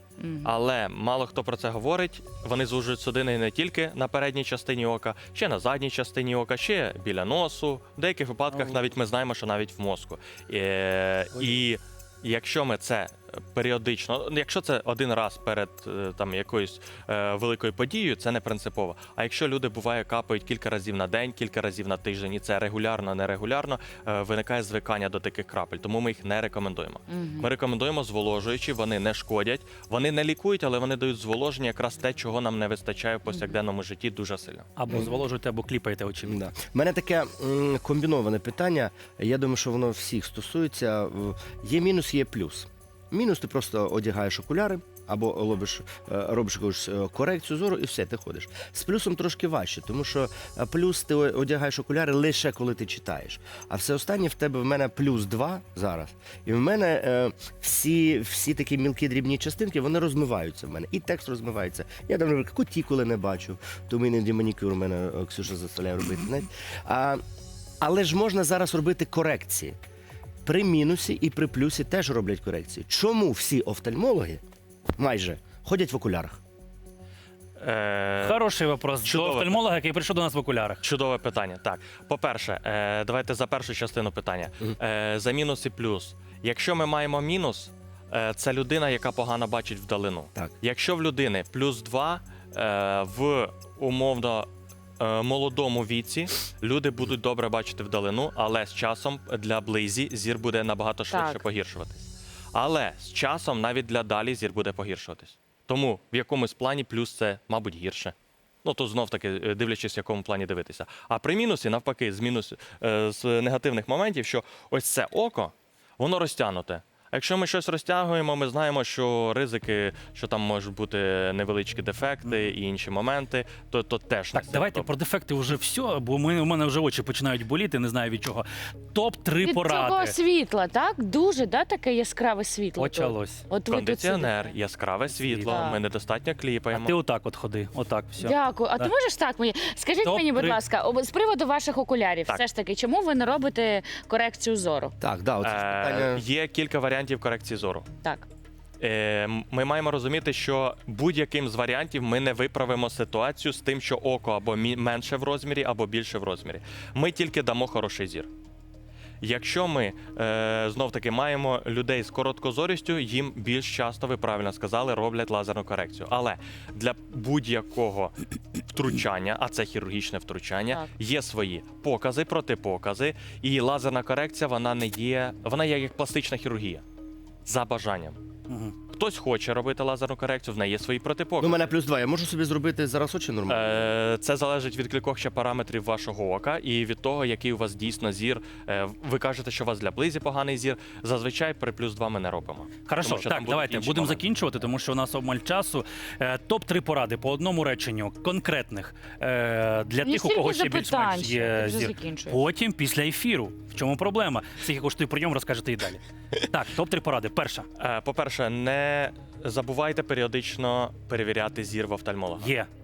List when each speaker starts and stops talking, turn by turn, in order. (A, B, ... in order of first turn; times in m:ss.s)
0:00.2-0:00.5 A
0:00.4-0:34.7 B
0:27.1-0:27.5 A
0:33.3-0:33.6 A
0:34.8-0:36.5 C
0:36.2-1:07.2 D
1:07.8-1:09.8 D
1:10.4-1:14.4 D
1:15.0-1:16.4 D
1:17.6-1:18.4 B
1:18.2-1:20.8 C
1:19.0-1:19.6 B
1:20.8-1:34.5 B
1:35.0-2:04.9 B
1:41.1-1:41.4 A
2:04.3-2:10.2 C
2:09.4-2:14.6 A
2:12.8-2:13.4 C
2:13.7-2:17.0 B
2:15.1-2:15.7 C
2:15.4-2:15.8 A
2:16.7-2:18.9 C
2:18.2-2:24.9 A
2:20.0-2:20.6 C
2:25.0-2:26.2 D
2:25.4-2:27.9 B
2:28.8-2:38.3 B
2:39.2-2:56.8 B
2:57.4-2:58.2 B
2:58.5-2:58.8 C
2:58.9-3:01.7 B
3:01.4-3:03.9 D
3:03.5-3:14.2 B
3:12.8-3:27.7 C
3:20.0-3:22.5 A
3:27.8-3:32.5 B
3:32.4-3:32.7 C